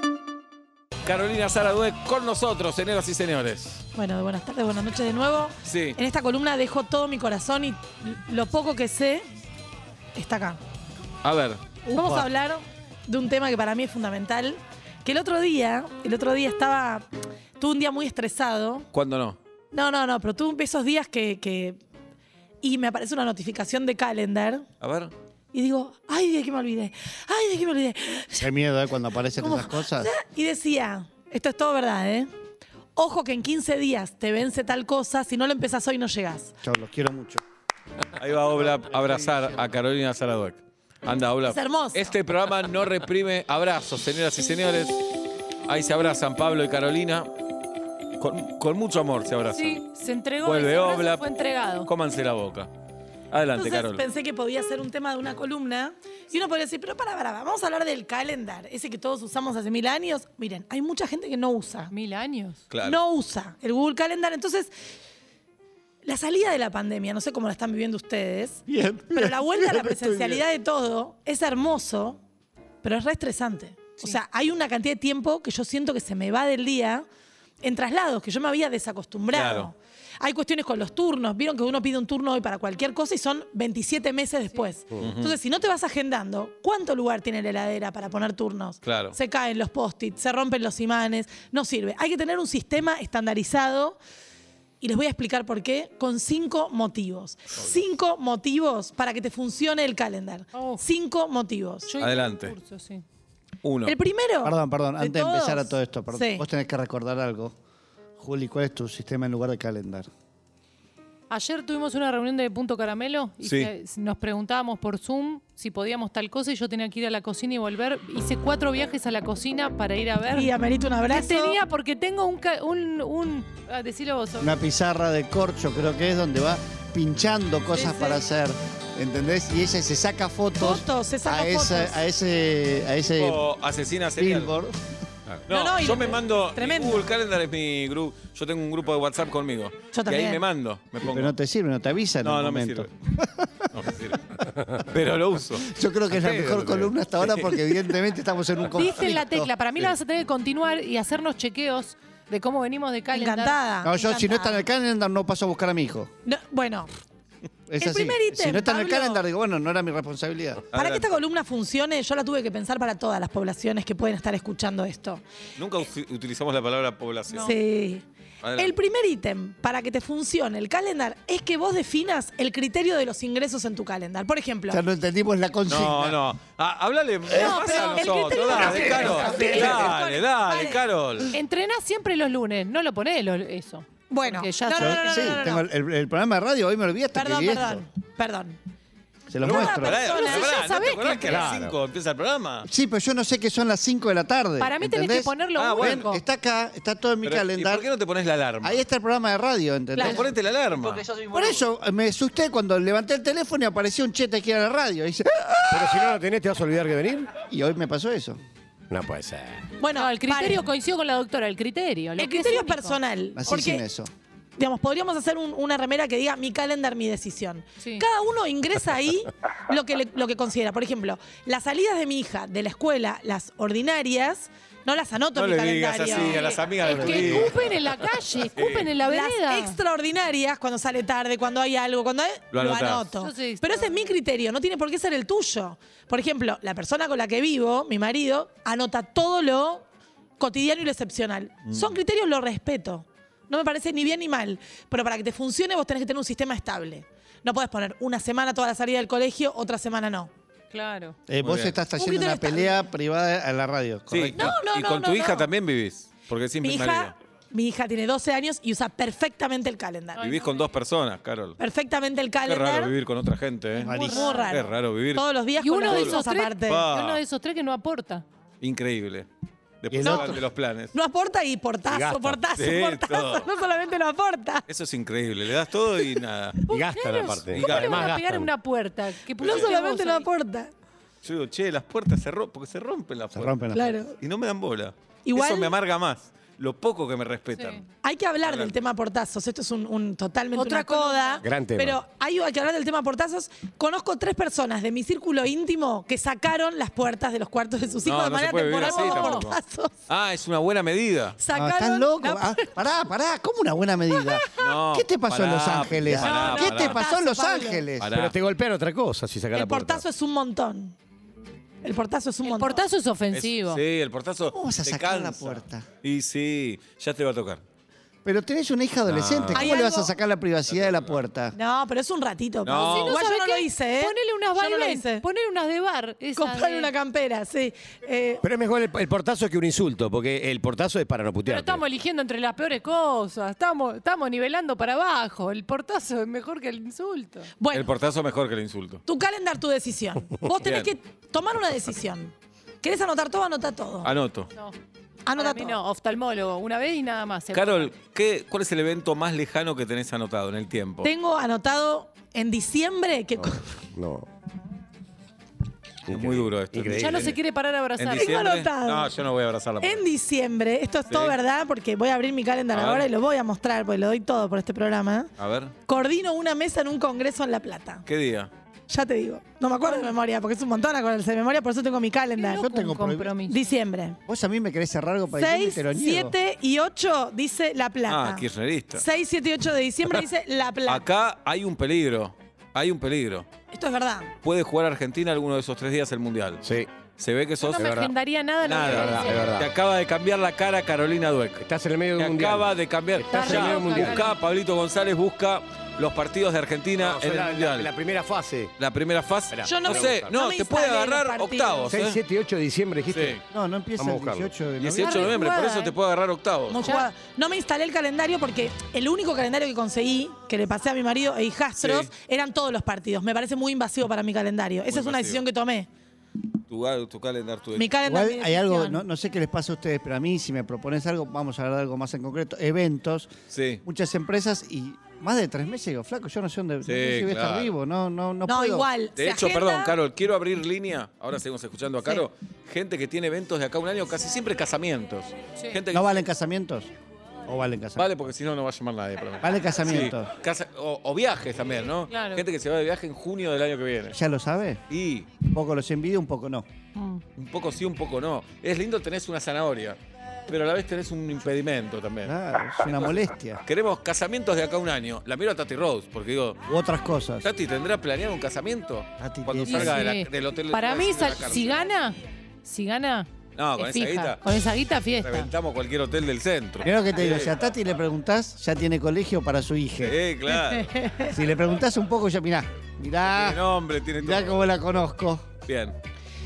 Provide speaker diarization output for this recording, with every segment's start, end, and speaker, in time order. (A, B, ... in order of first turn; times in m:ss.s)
0:01.0-0:03.8 A
0:04.0-0:09.2 B
0:05.6-0:06.0 A
0:10.2-0:10.6 B
0:11.2-0:11.6 A
0:11.8-0:12.3 C
0:11.9-0:18.9 B
0:18.9-0:19.4 A
0:19.7-0:21.8 B
0:22.6-0:24.6 B
0:24.8-0:25.1 A
0:25.5-0:28.5 B
0:28.4-0:30.1 C
0:29.4-0:32.3 B
0:33.0-0:36.5 B
0:36.6-0:37.4 C
0:38.2-0:45.0 A
0:38.6-0:39.7 C
0:41.5-0:42.1 B
0:45.7-0:47.3 A
0:48.2-0:49.8 A
0:49.4-0:51.9 D
0:50.4-0:51.3 A
0:51.8-0:52.7 A
0:53.3-0:54.0 A
0:53.5-1:01.9 B
1:01.9-1:02.6 D
1:02.7-1:03.0 A
1:02.8-1:04.7 B
1:06.0-1:12.2 B
1:08.7-1:10.4 C
1:12.8-1:17.1 B
1:17.6-1:34.0 B
1:19.3-1:19.7 A
1:25.0-1:25.4 A
1:28.8-1:29.2 A
1:34.8-1:41.9 B
1:40.5-1:40.8 D
1:41.9-1:43.0 D
1:42.0-1:42.6 A
1:43.6-1:44.0 A
1:43.9-1:46.4 B
1:44.4-1:47.6 C
1:48.2-1:50.1 C
1:51.3-2:00.5 D
1:53.4-1:53.7 A
2:00.3-2:01.6 B
2:01.1-2:04.5 D
2:04.4-2:13.4 C
2:07.7-2:08.2 D
2:10.6-2:12.0 B
2:13.2-2:14.5 A
2:14.2-2:14.8 C
2:15.5-2:21.4 A
2:15.5-2:17.1 B
2:19.9-2:20.4 B
2:21.0-2:23.7 C
2:22.2-2:22.9 A
2:23.7-2:24.4 A
2:24.9-2:25.7 A
2:25.6-2:29.5 C
2:26.1-2:26.9 E
2:28.7-2:33.6 D
2:33.1-2:34.7 B
2:33.8-2:36.1 C
2:36.3-2:36.9 B
2:37.7-2:40.6 C
2:37.8-2:39.2 B
2:40.7-2:41.2 A
2:40.7-2:45.2 B
2:45.6-2:47.6 A
2:47.3-2:47.6 D
2:47.4-2:48.0 B
2:48.4-2:48.8 A
2:48.6-2:54.8 B
2:54.7-2:56.2 C
2:55.7-3:01.4 A
2:57.3-3:00.8 B
2:57.4-2:58.1 D
2:58.6-2:59.9 C
3:01.3-3:05.5 D
3:04.1-3:05.6 B
3:04.8-3:07.9 C
3:07.1-3:08.6 B
3:09.3-3:10.0 C
3:09.4-3:09.8 E
3:09.5-3:10.7 B
3:09.8-3:12.7 A
3:10.0-3:11.6 D
3:11.2-3:11.8 E
3:12.6-3:17.9 C
3:14.6-3:16.2 D
3:15.6-3:16.1 A
3:17.2-3:18.8 A
3:18.6-3:20.3 C
3:20.0-3:21.1 A
3:21.2-3:26.1 C
3:25.7-3:27.3 E
3:27.4-3:28.4 C
3:28.9-3:29.7 E
3:29.8-3:30.7 B
3:30.0-3:33.0 D
3:32.2-3:33.8 B
3:33.4-3:34.1 C
3:34.6-3:47.4 B
3:37.8-3:38.1 D
3:45.4-3:47.7 A
3:46.1-3:49.8 D
3:46.8-3:47.6 C
3:48.6-3:48.9 A
3:49.1-3:59.8 B
3:52.5-3:53.1 A
3:53.2-3:53.9 D
4:00.4-4:10.3 B
4:01.6-4:02.0 A
4:10.7-4:11.2 D
4:11.3-4:14.4 C
4:11.4-4:11.8 A
4:12.0-4:12.9 B
4:14.1-4:17.2 A
4:14.3-4:15.5 B
4:16.6-4:20.3 B
4:20.2-4:20.7 D
4:20.2-4:21.6 A
4:21.6-4:22.9 B
4:22.4-4:25.3 A
4:23.8-4:24.5 D
4:23.8-4:24.3 C
4:24.1-4:26.8 B
4:25.6-4:28.2 D
4:25.9-4:27.2 A
4:28.6-4:29.3 A
4:29.8-4:30.9 A
4:29.9-4:30.5 C
4:30.0-4:30.4 B
4:30.9-4:34.6 B
4:31.9-4:32.4 E
4:32.6-4:33.5 A
4:34.7-4:36.6 A
4:36.7-4:38.5 E
4:36.7-4:40.3 D
4:37.5-4:38.1 A
4:39.4-4:40.7 B
4:39.4-4:39.7 A
4:41.2-4:47.8 A
4:43.3-4:44.0 C
4:43.7-4:44.2 B
4:45.2-4:45.7 B
4:47.6-4:47.8 D
4:48.0-4:59.9 B
4:48.4-4:48.8 A
4:50.6-4:51.4 D
4:51.4-4:52.0 E
4:58.0-4:59.6 A
4:58.8-4:59.5 D
5:00.1-5:01.4 A
5:01.4-5:02.7 B
5:01.5-5:08.1 C
5:04.1-5:04.7 B
5:04.6-5:07.0 A
5:06.2-5:07.9 B
5:08.0-5:08.4 A
5:08.1-5:10.0 E
5:09.5-5:11.0 B
5:11.8-5:12.8 B
5:12.4-5:13.8 D
5:13.3-5:17.6 A
5:14.5-5:15.9 C
5:18.2-5:21.6 C
5:19.1-5:19.7 A
5:19.6-5:20.1 B
5:20.7-5:21.2 A
5:21.5-5:25.2 B
5:22.6-5:23.2 A
5:22.7-5:26.9 D
5:26.4-5:28.4 B
5:28.4-5:31.8 E
5:31.5-5:37.5 D
5:37.6-5:37.9 B
5:37.7-5:39.0 A
5:39.1-5:44.1 B
5:40.6-5:40.9 A
5:44.0-5:44.5 A
5:45.3-5:45.8 B
5:45.4-5:47.9 D
5:47.5-5:51.1 A
5:51.0-5:53.7 B
5:53.4-5:54.3 E
5:56.1-5:57.4 A
5:56.1-5:57.3 E
5:57.0-5:58.3 D
5:58.0-6:00.0 A
5:58.2-5:59.1 B
5:59.8-6:05.3 B
6:01.1-6:01.4 A
6:02.7-6:03.1 A
6:05.4-6:05.8 A
6:05.9-6:08.0 B
6:08.1-6:08.5 A
6:08.9-6:12.6 B
6:12.4-6:13.6 D
6:12.5-6:13.4 C
6:13.5-6:14.2 B
6:14.3-6:16.4 C
6:15.4-6:21.1 B
6:18.1-6:19.1 A
6:20.9-6:23.5 A
6:23.7-6:24.3 B
6:24.4-6:26.6 A
6:26.6-6:26.9 E
6:27.2-6:28.0 A
6:27.6-6:29.4 D
6:27.8-6:28.1 E
6:28.6-6:31.6 A
6:28.9-6:29.7 E
6:31.6-6:34.3 E
6:32.2-6:37.9 A
6:33.3-6:34.4 D
6:37.0-6:38.7 E
6:38.8-6:42.2 A
6:39.5-6:40.4 E
6:39.7-6:41.9 B
6:41.9-6:43.4 E
6:43.1-6:43.4 A
6:43.5-6:45.4 C
6:44.0-6:44.5 E
6:44.8-6:46.8 A
6:44.9-6:46.0 D
6:46.7-6:55.9 B
6:46.8-6:47.1 D
6:51.8-6:52.1 A
6:54.9-6:55.4 A
6:56.7-6:57.9 A
6:57.8-6:59.0 B
6:58.0-7:03.3 C
7:03.5-7:03.8 A
7:03.8-7:08.9 C
7:06.8-7:07.8 A
7:08.5-7:10.0 B
7:09.2-7:16.2 A
7:15.9-7:16.9 C
7:17.5-7:18.1 C
7:18.0-7:24.2 A
7:19.4-7:20.3 C
7:22.1-7:22.4 D
7:24.1-7:24.8 C
7:24.9-7:25.3 A
7:25.4-7:26.7 C
7:27.0-7:27.2 D
7:27.4-7:36.6 A
7:32.2-7:33.6 C
7:36.7-7:37.5 C
7:37.4-7:41.8 A
7:39.2-7:40.1 C
7:39.7-7:45.5 D
7:43.6-7:44.4 A
7:45.2-7:47.5 A
7:46.8-7:50.2 C
7:50.0-7:51.0 A
7:50.5-7:51.3 B
7:51.2-7:53.6 C
7:53.3-7:54.7 A
7:54.2-7:55.5 C
7:55.6-7:56.0 A